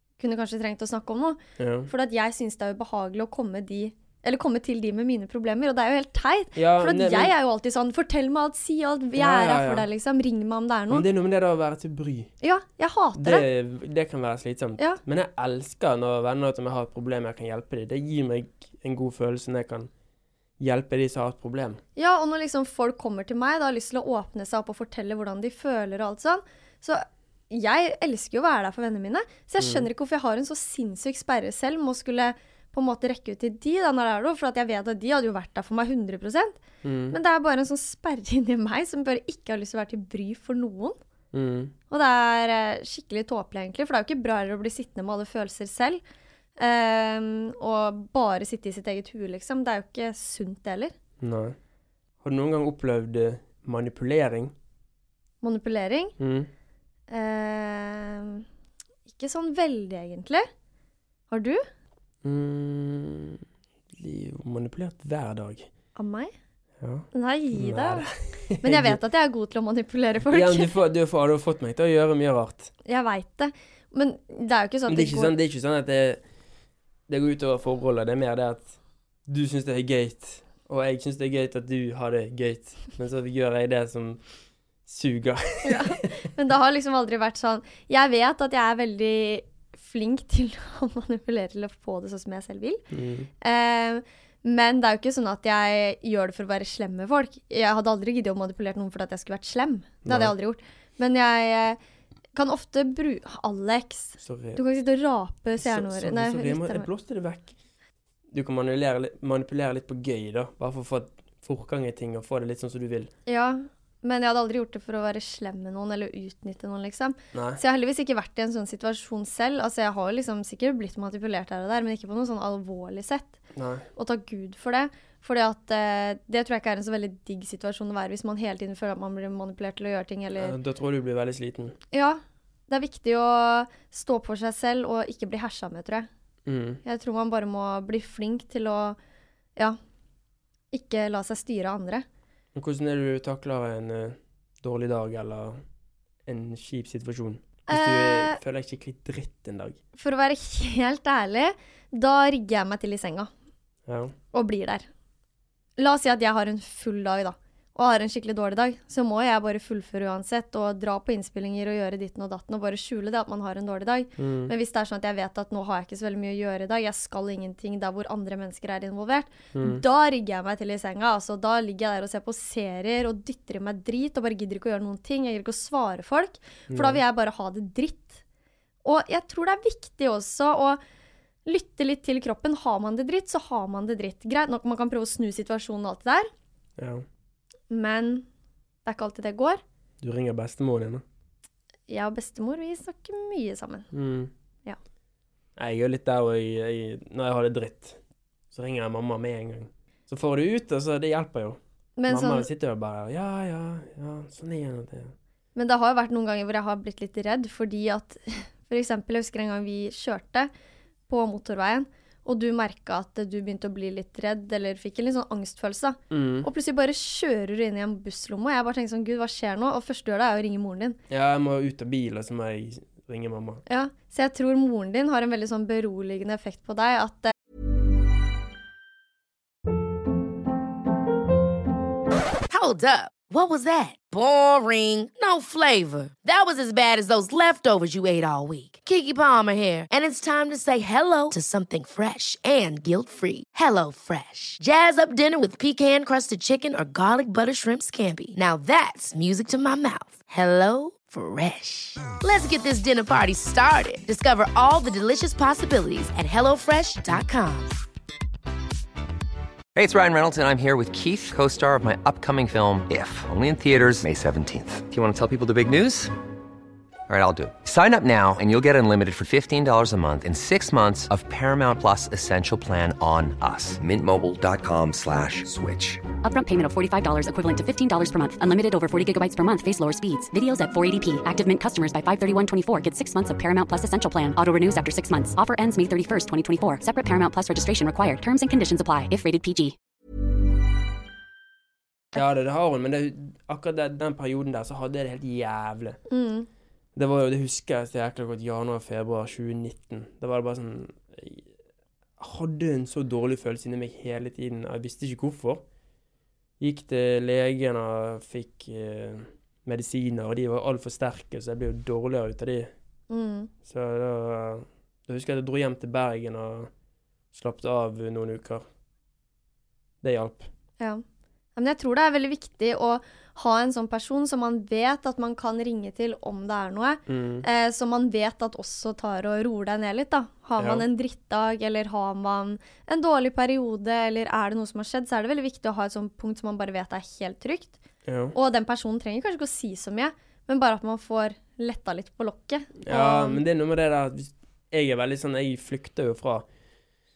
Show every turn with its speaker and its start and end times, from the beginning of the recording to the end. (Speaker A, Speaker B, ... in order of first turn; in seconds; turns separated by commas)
Speaker A: 0.2-11.1, Speaker B: 1.6-1.9, Speaker B: 6.6-7.3, Speaker B: 9.2-9.9, Speaker B: 10.9-12.3, Speaker A: 12.4-13.4, Speaker B: 13.2-19.9, Speaker B: 20.6-21.8, Speaker A: 22.0-41.0, Speaker B: 29.6-29.9, Speaker B: 36.8-37.2, Speaker B: 41.3-41.7, Speaker A: 41.9-46.0, Speaker A: 46.6-50.9, Speaker B: 51.2-51.6, Speaker B: 52.2-54.5, Speaker A: 55.4-56.1, Speaker B: 56.2-56.5, Speaker A: 57.1-58.5, Speaker A: 59.1-60.5, Speaker A: 61.3-61.6, Speaker B: 62.2-65.7, Speaker A: 66.0-66.3, Speaker B: 66.8-69.0, Speaker A: 67.1-68.1, Speaker A: 68.6-70.7, Speaker B: 70.3-72.7, Speaker A: 72.9-75.3, Speaker B: 74.9-76.2, Speaker B: 77.1-78.8, Speaker B: 79.3-84.2, Speaker B: 84.8-86.1, Speaker A: 85.7-92.8, Speaker B: 92.9-93.3, Speaker A: 93.4-101.8, Speaker B: 100.1-100.3, Speaker A: 102.3-106.9, Speaker B: 104.2-104.6, Speaker B: 105.6-107.5, Speaker B: 108.3-113.1, Speaker A: 113.3-123.4, Speaker B: 117.3-117.6, Speaker B: 123.5-123.9, Speaker A: 124.0-130.6, Speaker B: 130.4-131.8, Speaker A: 131.9-136.1, Speaker B: 136.5-136.8, Speaker A: 136.8-139.0, Speaker A: 140.7-142.1, Speaker B: 142.6-145.6, Speaker B: 146.3-149.8, Speaker A: 147.7-148.4, Speaker A: 150.0-153.3, Speaker B: 153.9-154.2, Speaker A: 154.3-154.9, Speaker A: 155.8-178.2, Speaker B: 164.2-164.5, Speaker B: 169.6-169.8, Speaker B: 176.7-177.0, Speaker A: 178.8-180.8, Speaker A: 181.5-186.3, Speaker B: 186.8-187.1, Speaker A: 187.7-188.3, Speaker A: 188.8-189.6, Speaker B: 190.0-191.0, Speaker A: 191.9-193.9, Speaker B: 193.9-194.3, Speaker B: 195.6-198.0, Speaker B: 198.5-205.1, Speaker A: 202.0-202.5, Speaker A: 205.6-210.5, Speaker A: 211.1-221.0, Speaker B: 216.1-216.5, Speaker B: 221.1-223.6, Speaker A: 223.7-227.3, Speaker C: 232.5-257.8, Speaker D: 259.8-266.1, Speaker D: 267.1-276.0, Speaker E: 276.2-289.8, Speaker B: 292.1-296.0, Speaker A: 296.1-296.5, Speaker B: 297.0-301.5, Speaker B: 302.2-305.6, Speaker B: 306.6-312.7, Speaker A: 313.1-313.5, Speaker B: 313.6-316.7, Speaker B: 317.3-318.6, Speaker B: 320.0-320.5, Speaker A: 321.6-337.8, Speaker B: 327.1-327.5, Speaker B: 330.6-330.9, Speaker B: 338.1-338.4, Speaker A: 338.3-343.4, Speaker B: 342.8-346.5